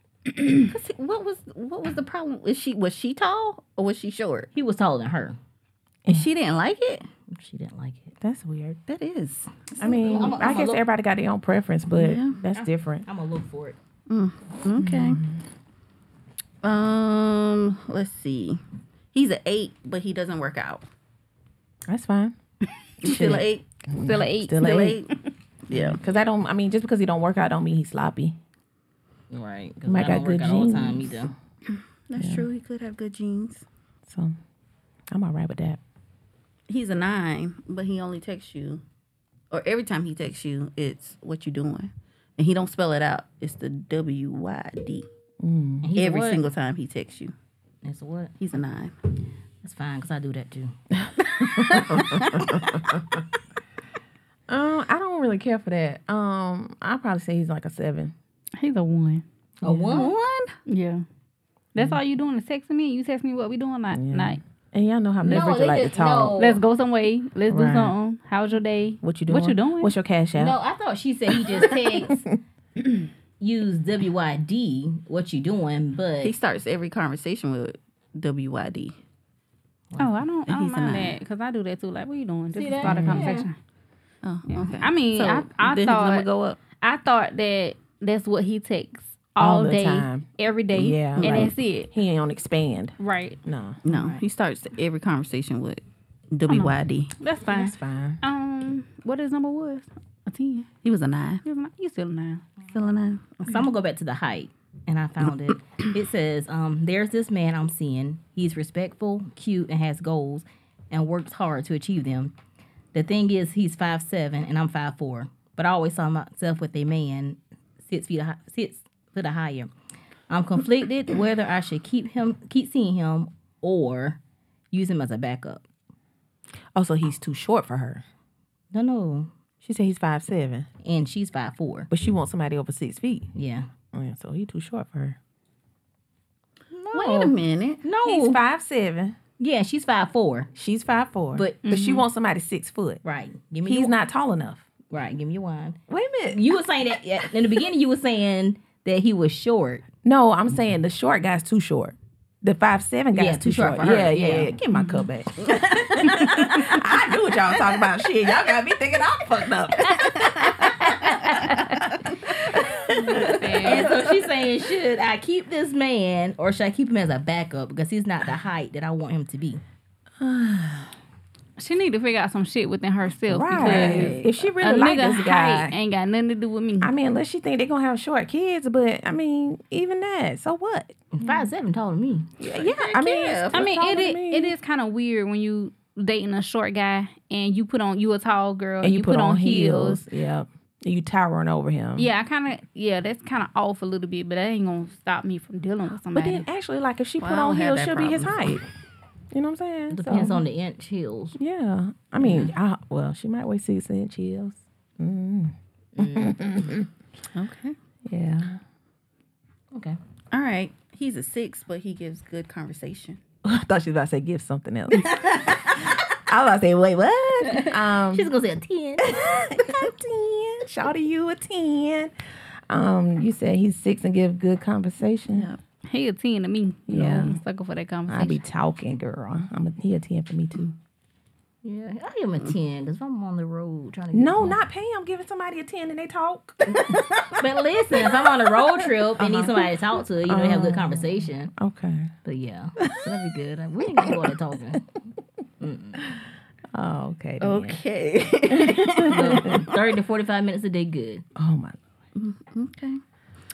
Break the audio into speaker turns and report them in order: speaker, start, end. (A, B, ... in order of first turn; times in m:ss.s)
0:00.5-0:04.5 A
0:04.5-0:05.4 B
0:06.1-0:07.1 A
0:07.3-0:08.1 B
0:08.2-0:08.8 C
0:08.9-0:10.5 A
0:09.8-0:13.1 C
0:09.9-0:10.8 B
0:11.9-0:12.4 A
0:12.5-0:13.8 B
0:14.1-0:15.2 A
0:14.8-0:15.4 C
0:16.6-0:18.6 A
0:19.1-0:20.8 A
0:21.9-0:22.4 C
0:23.0-0:23.6 A
0:23.0-0:25.0 C
0:24.0-0:24.8 D
0:24.6-0:25.2 A
0:25.7-0:26.0 A
0:25.7-0:28.4 C
0:29.3-0:31.3 B
0:29.9-0:31.3 C
0:31.7-0:33.6 A
0:32.2-0:32.5 C
0:34.1-0:34.4 C
0:35.1-0:35.8 C
0:36.7-0:38.8 A
0:39.5-0:45.1 A
0:45.4-0:45.9 C
0:45.8-0:46.4 B
0:46.0-0:47.3 A
0:47.8-0:48.3 B
0:48.4-0:48.9 A
0:49.6-0:50.8 B
0:51.1-0:53.2 C
0:51.7-0:52.5 A
0:54.5-0:58.1 C
0:58.6-0:59.2 D
0:59.6-1:00.5 B
0:59.6-1:00.0 C
1:00.7-1:01.0 D
1:01.8-1:04.4 D
1:03.9-1:06.4 C
1:05.2-1:06.6 B
1:06.4-1:09.9 D
1:07.5-1:07.9 C
1:09.0-1:10.6 C
1:10.4-1:12.2 B
1:11.5-1:12.4 C
1:13.4-1:16.4 B
1:16.2-1:19.0 A
1:20.0-1:23.6 D
1:20.5-1:21.2 A
1:22.5-1:23.5 B
1:22.8-1:23.3 C
1:24.2-1:26.6 A
1:24.5-1:31.9 D
1:29.4-1:33.8 C
1:31.2-1:31.5 A
1:33.0-1:33.4 D
1:33.8-1:37.1 A
1:33.9-1:34.2 D
1:36.5-1:40.7 D
1:37.5-1:38.2 C
1:40.8-1:41.4 A
1:41.4-1:42.4 D
1:42.7-1:43.6 A
1:43.4-1:52.3 B
1:52.9-1:59.7 B
2:00.3-2:04.2 B
2:04.7-2:05.6 B
2:06.8-2:08.0 C
2:08.7-2:09.3 B
2:09.6-2:10.7 C
2:10.8-2:11.9 B
2:11.9-2:13.3 C
2:13.4-2:13.7 B
2:13.9-2:15.2 C
2:16.7-2:18.4 B
2:16.9-2:17.8 A
2:18.0-2:19.2 C
2:19.4-2:20.5 B
2:20.6-2:23.0 C
2:21.4-2:21.6 B
2:21.6-2:22.0 D
2:23.0-2:23.9 B
2:23.6-2:24.7 C
2:24.9-2:25.8 B
2:25.9-2:26.4 C
2:26.3-2:29.8 B
2:30.0-2:43.8 C
2:33.1-2:34.5 B
2:39.9-2:40.2 A
2:43.0-2:44.0 D
2:43.6-2:49.6 B
2:50.2-2:50.9 C
2:51.6-2:56.9 D
2:53.3-2:55.8 C
2:53.5-2:54.2 B
2:56.8-3:01.0 C
3:01.1-3:02.3 B
3:02.4-3:03.7 A
3:02.4-3:04.5 C
3:03.5-3:10.0 D
3:08.8-3:12.1 C
3:12.0-3:16.4 D
3:16.1-3:18.6 C
3:17.2-3:18.4 A
3:19.3-3:20.4 C
3:19.9-3:21.4 B
3:21.4-3:26.9 C
3:22.2-3:22.5 B
3:26.0-3:26.5 B
3:27.3-3:27.8 A
3:28.1-3:28.6 C
3:29.7-3:30.0 B
3:30.3-3:33.2 A
3:33.4-3:38.3 C
3:37.5-3:39.2 B
3:39.0-3:42.1 C
3:42.7-3:45.5 C
3:45.3-3:45.6 A
3:45.9-3:48.4 D
3:46.9-3:47.4 C
3:48.1-3:50.7 C
3:51.6-3:54.6 B
3:54.1-3:57.4 C
3:56.8-4:01.5 B
3:59.2-3:59.7 C
4:00.2-4:02.1 C
4:02.2-4:04.9 B
4:02.8-4:03.1 C
4:04.0-4:04.3 C
4:05.6-4:06.0 B
4:06.7-4:07.8 C
4:07.4-4:09.8 A
4:08.5-4:09.7 C
4:09.1-4:11.2 B
4:11.4-4:11.8 C
4:12.2-4:13.0 A